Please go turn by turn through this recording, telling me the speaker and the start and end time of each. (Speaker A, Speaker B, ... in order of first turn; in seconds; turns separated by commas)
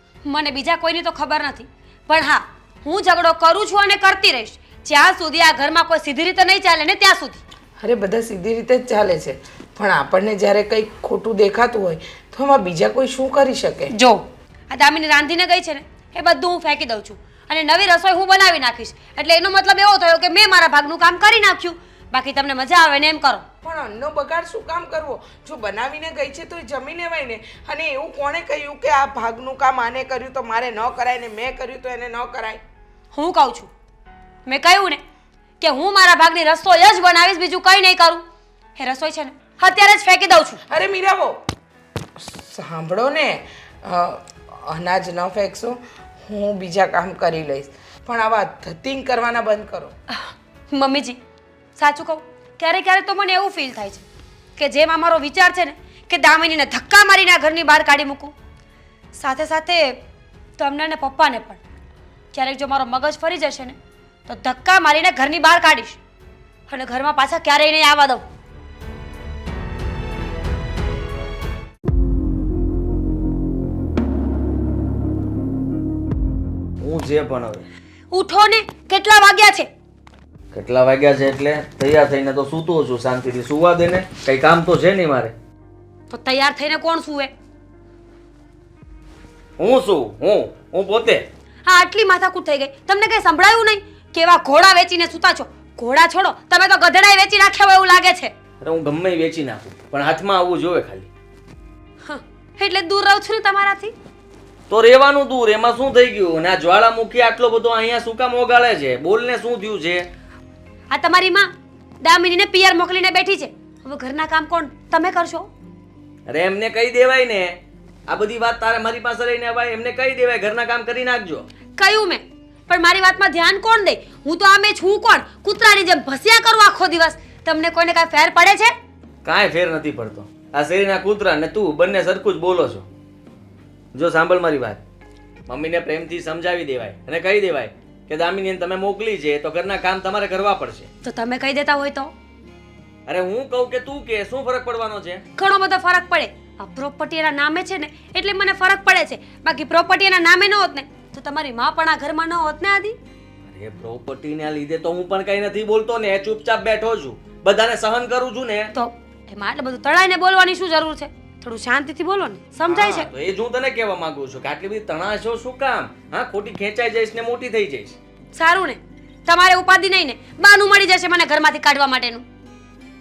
Speaker A: 0.2-7.4, Speaker B: 7.8-13.9, Speaker A: 13.9-23.4, Speaker B: 23.6-32.6, Speaker A: 33.1-33.7, Speaker A: 34.5-35.0, Speaker A: 35.6-38.2, Speaker A: 38.8-40.6, Speaker B: 40.7-41.4, Speaker B: 42.2-49.9, Speaker A: 50.1-51.2, Speaker A: 51.8-54.0, Speaker A: 54.6-58.3, Speaker A: 59.1-60.0, Speaker A: 60.6-61.6, Speaker A: 62.3-66.0, Speaker A: 66.7-68.2, Speaker C: 76.8-77.7, Speaker A: 78.1-79.7, Speaker C: 80.5-85.3, Speaker A: 86.1-87.3, Speaker C: 89.6-91.2, Speaker A: 91.7-98.3, Speaker C: 98.6-101.1, Speaker A: 102.0-103.9, Speaker C: 104.7-110.1, Speaker A: 110.9-115.5, Speaker C: 116.3-117.6, Speaker C: 118.1-121.5, Speaker A: 121.8-128.7, Speaker C: 129.2-132.8, Speaker C: 133.9-134.8, Speaker C: 135.5-140.9, Speaker A: 141.0-142.1, Speaker C: 143.1-145.2, Speaker A: 145.4-153.0, Speaker C: 153.5-158.7, Speaker A: 158.7-163.1, Speaker C: 162.7-168.0, Speaker A: 168.3-172.2